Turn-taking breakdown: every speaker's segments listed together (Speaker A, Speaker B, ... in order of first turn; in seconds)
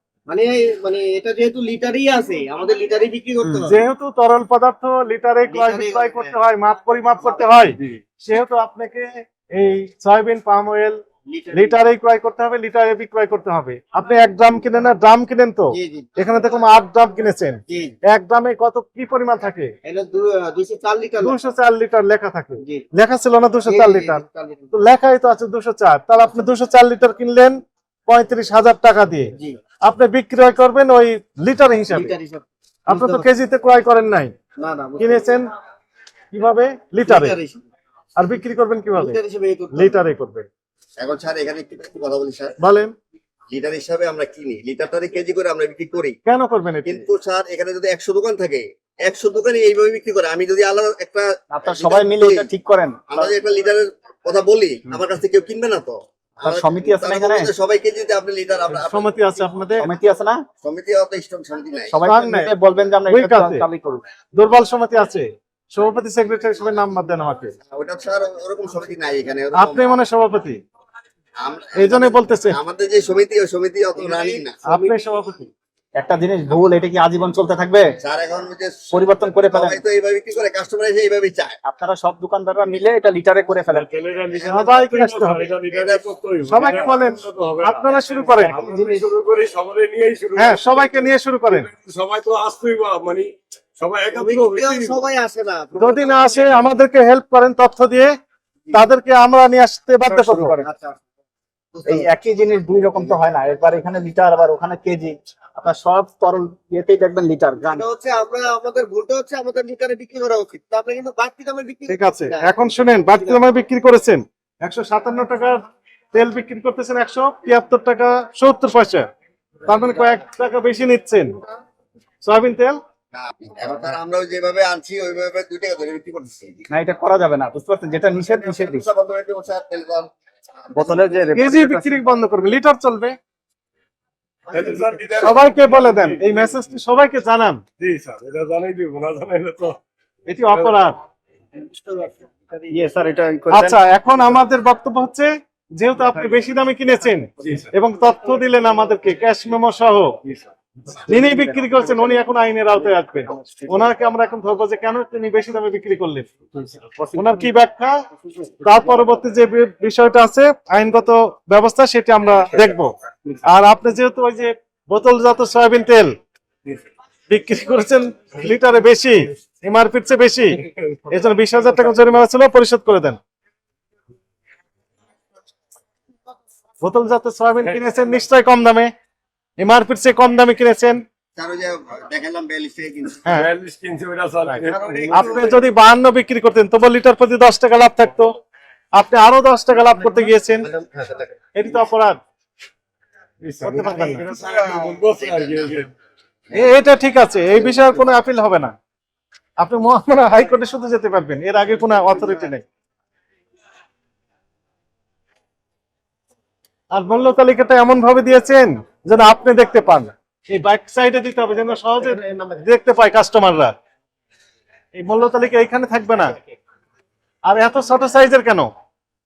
Speaker A: 0.3-3.8, 5.5-6.4, 7.2-7.5, 11.3-11.8, 15.7-16.1, 17.7-17.9, 19.9-21.4, 23.6-24.7, 31.9-33.2, 34.6-35.3, 37.0-37.6, 39.0-40.0, 94.1-96.7, 100.6-101.0, 107.6-112.6, 113.1-113.4, 141.6-142.7, 184.7-185.5, 190.7-191.2
Speaker B: 3.6-11.0, 11.5-19.7, 21.2-32.1, 32.9-34.3, 35.0-35.5, 36.3-37.4, 38.2-39.2, 39.7-40.5, 42.6-42.9, 46.3-47.0, 58.7-59.9, 62.0-62.5, 63.1-63.7, 64.4-67.5, 69.5-70.6, 71.8-72.6, 74.7-75.5, 84.4-85.5, 86.5-88.6, 90.4-91.7, 95.8-98.1, 98.7-100.6, 111.9-115.6, 116.1-119.1, 119.7-121.4, 122.2-122.8, 131.3-133.2, 135.2-137.6, 140.3-141.0, 143.5-150.2, 151.1-156.3, 157.1-158.0, 158.6-166.1, 167.3-173.2, 176.8-178.9, 179.6-181.0, 185.1-188.4, 188.9-190.7, 191.6-192.2, 193.6-194.2, 196.5-198.7, 199.6-202.6, 206.9-213.7, 215.0-216.4, 217.5-218.7
Speaker C: 41.0-42.6, 43.5-46.2, 46.9-52.5, 53.1-59.1, 60.6-62.0, 67.7-69.9, 71.4-74.6, 78.0-81.6, 85.7-86.1, 123.1-126.6, 128.4-130.1, 130.7-131.1, 181.4-183.2
Speaker D: 51.5-53.4, 56.4-57.5, 59.8-60.4, 61.9-64.0, 76.0-78.0, 78.9-79.8, 81.7-83.9, 88.8-89.0, 100.1-100.7, 101.8-107.9, 126.7-128.8, 130.7-132.0, 142.7-143.8, 153.3-153.6
Speaker E: 74.0-75.0, 83.7-95.0, 134.5-136.5, 137.8-139.8, 147.4-147.7, 170.7-171.1, 171.7-172.0, 183.3-185.6, 193.4-195.9